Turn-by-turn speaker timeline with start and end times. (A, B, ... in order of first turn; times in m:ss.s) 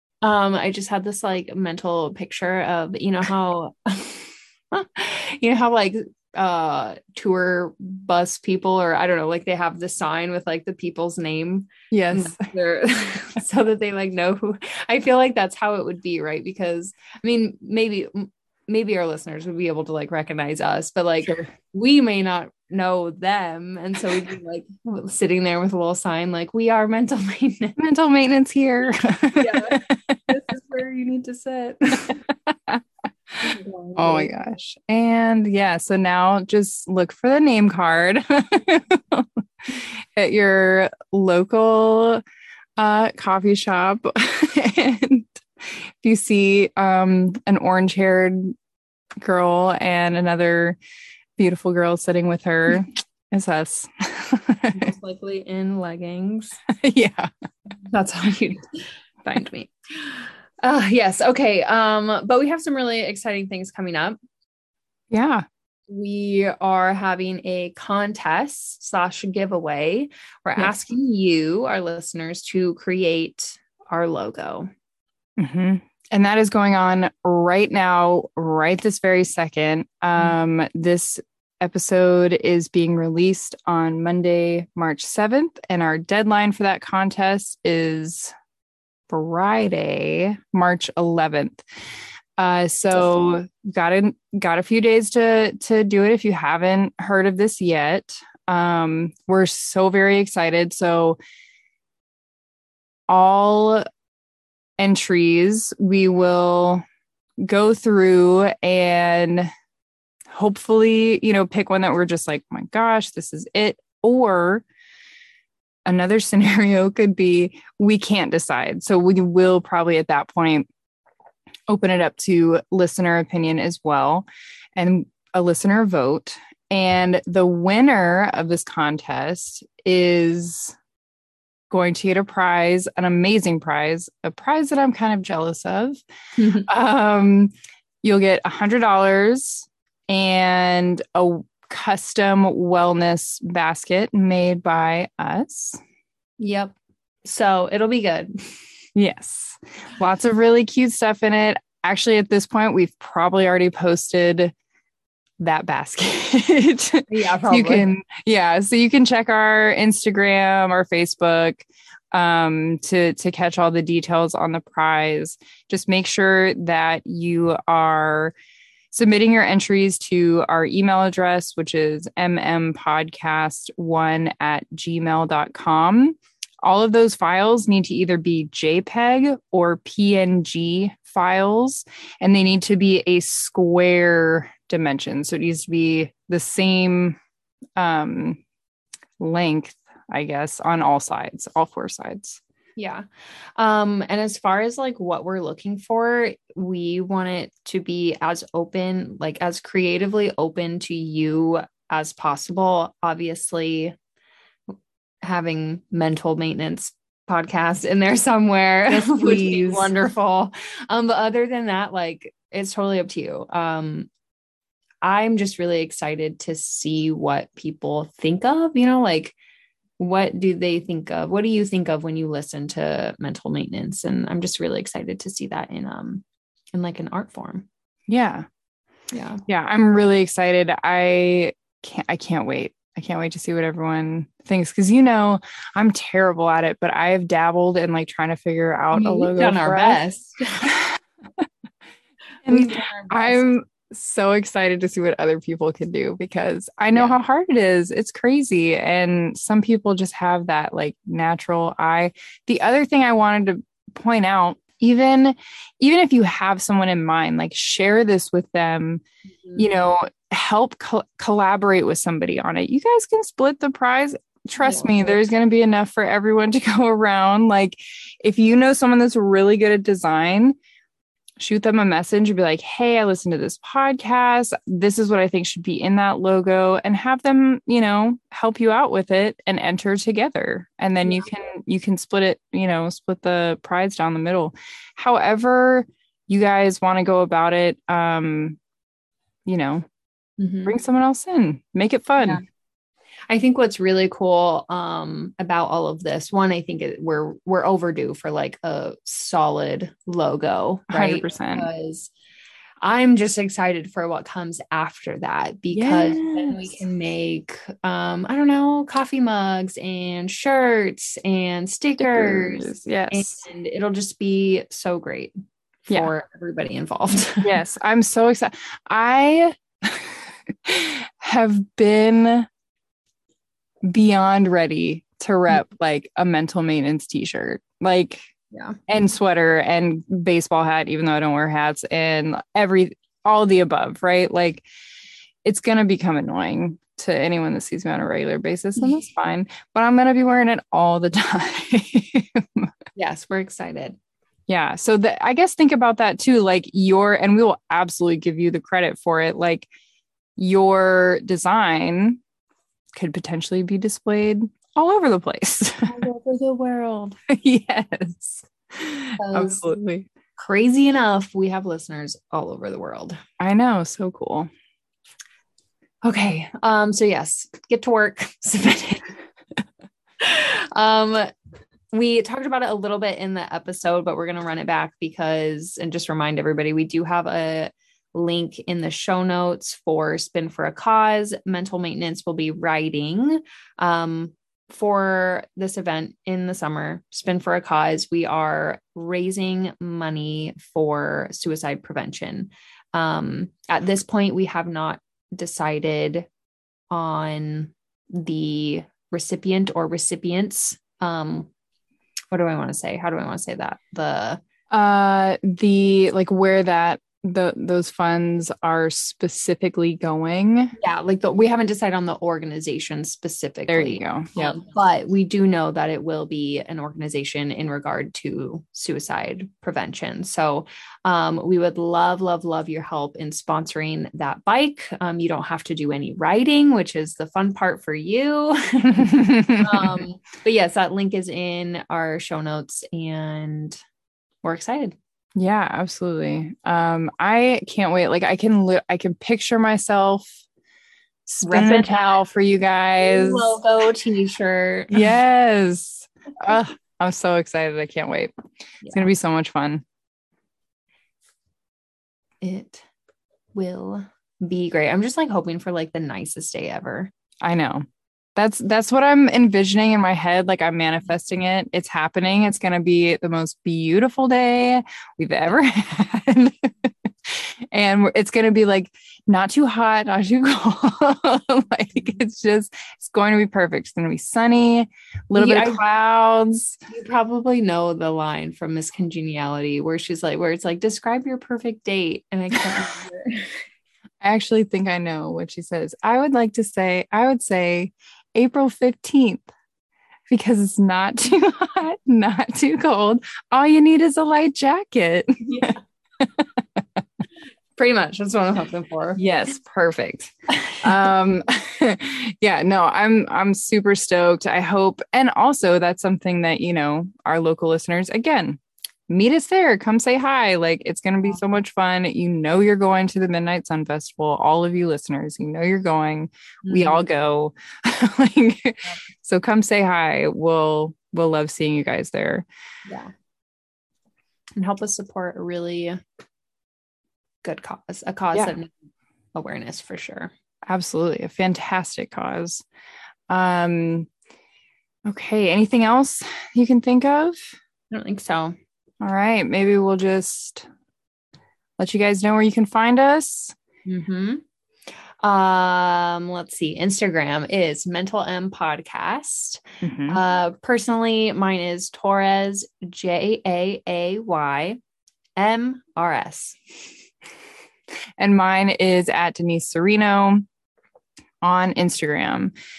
0:00.2-0:27.8 A
0:11.9-0:12.4 B
0:27.8-0:30.2 B
0:29.4-0:29.8 A
0:30.3-0:32.2 A
0:32.0-0:42.2 B
0:33.4-0:34.3 A
0:42.8-0:48.6 B
0:49.2-0:50.8 B
0:51.4-0:54.9 B
0:54.7-0:56.6 A
0:56.7-0:57.3 B
0:57.9-1:04.2 A
1:05.1-1:05.4 B
1:05.9-1:14.7 A
1:15.4-1:28.4 B
1:29.1-1:31.6 B
1:32.4-1:41.2 B
1:43.1-1:43.8 B
1:44.8-1:46.8 B
1:47.4-1:49.5 B
1:50.3-1:54.6 B
1:55.9-2:00.7 B
2:01.7-2:10.8 B
2:11.7-2:16.0 B
2:16.4-2:16.7 A
2:16.7-2:25.8 B
2:26.4-2:28.7 A
2:29.0-2:34.5 B
2:35.4-2:48.4 B
2:37.1-2:37.9 A
2:48.9-3:07.2 B
3:07.8-3:08.4 B
3:09.2-3:12.4 B
3:12.8-3:24.0 A
3:25.2-3:34.1 A
3:28.9-3:30.1 B
3:35.0-3:39.4 A
3:40.0-3:46.2 A
3:46.7-3:47.7 A
3:48.1-3:48.5 B
3:49.1-3:49.4 A
3:49.5-4:00.0 B
3:58.9-4:00.7 A
4:00.6-4:01.5 B
4:02.4-4:03.5 A
4:02.5-4:19.0 B
4:06.9-4:07.2 A
4:19.6-4:30.6 B
4:24.6-4:25.2 A
4:31.4-4:48.6 B
4:49.5-4:49.9 B
4:50.4-4:50.8 A
4:50.7-4:52.4 B
4:52.2-4:52.4 A
4:53.3-5:02.1 A
5:00.9-5:01.7 B
5:02.8-5:15.3 A
5:05.7-5:06.8 B
5:12.0-5:13.4 B
5:15.9-5:17.6 A
5:17.4-5:22.5 B
5:23.8-5:28.3 B
5:28.5-5:28.8 A
5:28.9-5:34.6 B
5:35.4-5:42.8 B
5:43.0-5:44.0 A
5:44.5-5:49.7 B
5:50.4-5:52.2 B
5:53.0-5:56.0 B
5:55.9-5:57.2 A
5:57.3-6:00.1 B
5:59.2-5:59.6 A
6:00.4-6:03.2 A
6:03.4-6:04.5 B
6:06.0-6:09.1 A
6:10.2-6:11.3 A
6:11.9-6:36.3 A
6:36.9-6:41.5 A
6:42.3-6:44.4 A
6:44.7-6:50.8 B
6:50.8-7:13.8 A
6:53.7-6:54.6 B
7:08.8-7:10.0 B
7:14.4-7:15.0 A
7:15.4-7:20.4 B
7:21.3-7:23.6 B
7:21.4-7:22.0 A
7:23.0-7:25.1 A
7:24.9-7:28.4 B
7:28.8-7:29.1 A
7:28.9-7:29.8 B
7:32.4-7:32.8 A
7:33.5-7:37.1 A
7:37.4-7:37.8 B
7:38.4-7:56.8 B
7:55.4-7:55.8 A
7:56.9-8:03.5 A
8:04.2-8:09.5 B
8:10.3-8:16.8 B
8:15.5-8:15.7 A
8:17.8-8:19.2 A
8:19.2-8:42.5 B
8:20.5-8:20.9 A
8:36.6-8:37.0 A
8:42.9-8:43.1 A
8:44.6-8:46.0 A
8:47.4-8:48.7 A
8:49.3-8:50.3 A
8:50.7-8:52.6 B
8:53.3-8:54.1 B
8:55.1-8:57.5 B
8:57.9-8:58.6 A
8:59.0-9:00.7 B
9:01.8-9:03.6 B
9:03.9-9:04.4 A
9:05.2-9:14.8 A
9:09.8-9:10.2 B
9:15.4-9:16.6 A
9:18.2-9:20.5 B
9:21.4-9:22.5 B